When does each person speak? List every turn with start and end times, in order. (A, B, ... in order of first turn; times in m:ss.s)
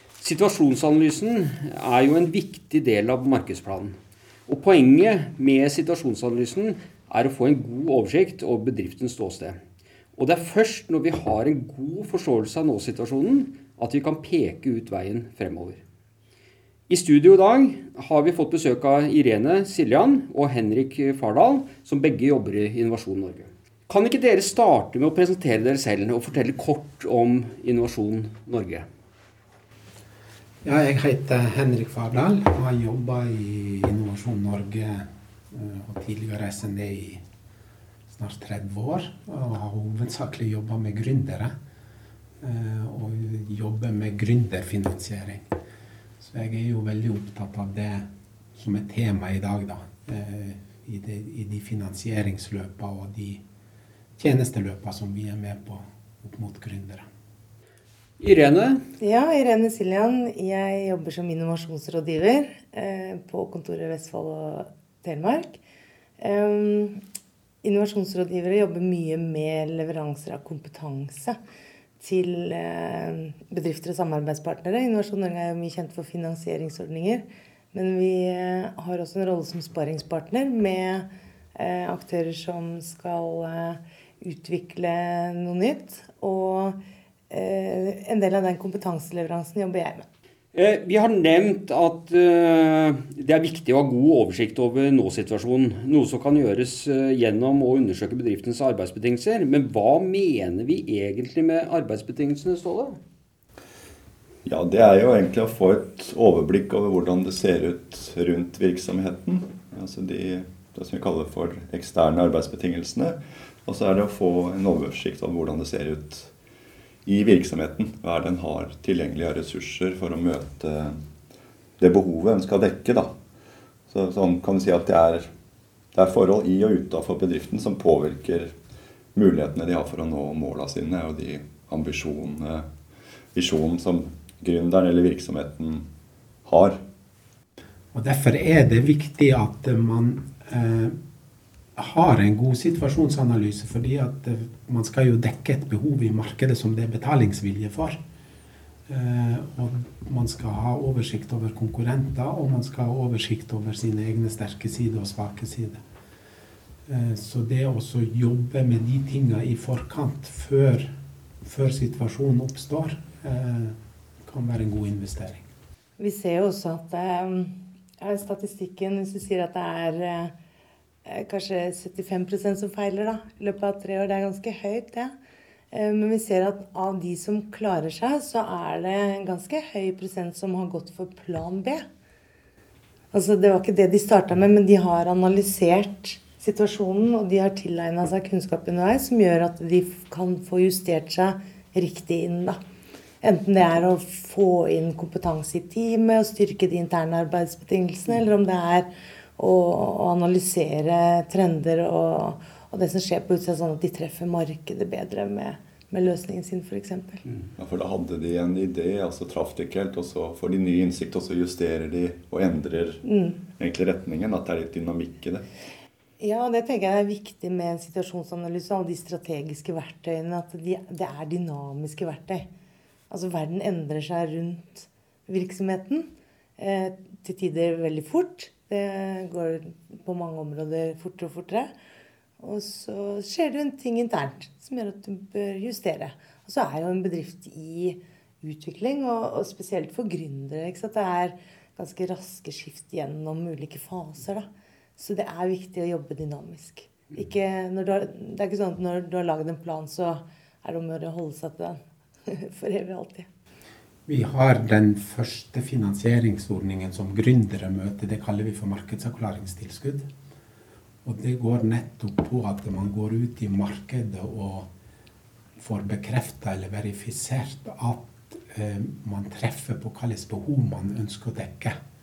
0:00.2-0:09.6 A
0:10.2-0:15.8 A
0:16.9-0:28.8 A
0:30.6-0:37.2 B
0:38.1-0:41.5 B
0:42.4-0:45.4 B
0:46.2-0:53.4 B
0:54.2-0:57.1 B
0:58.2-0:58.8 A
0:59.0-1:05.6 C
1:06.2-1:07.0 C
1:07.6-1:11.4 C
1:12.0-1:26.8 C
1:27.3-1:30.0 C
1:30.5-1:43.0 A
1:44.4-1:56.3 D
1:57.0-2:00.9 D
2:01.8-2:03.1 D
2:03.9-2:05.3 D
2:05.9-2:08.5 D
2:09.1-2:12.6 D
2:13.3-2:15.8 D
2:16.4-2:16.8 D
2:17.9-2:21.0 B
2:21.8-2:28.0 B
2:28.9-2:35.8 B
2:36.9-2:40.9 B
2:41.4-2:45.5 B
2:46.0-2:50.3 C
2:51.0-2:55.1 C
2:55.7-3:01.8 C
3:03.1-3:12.6 C
3:13.2-3:27.2 C
3:27.6-3:33.0 D
3:33.0-3:33.4 C
3:33.6-3:35.4 D
3:36.2-3:42.5 C
3:43.1-3:51.7 C
3:52.4-4:13.3 C
4:14.1-4:20.1 B
4:21.0-4:24.7 B
4:25.6-4:31.8 B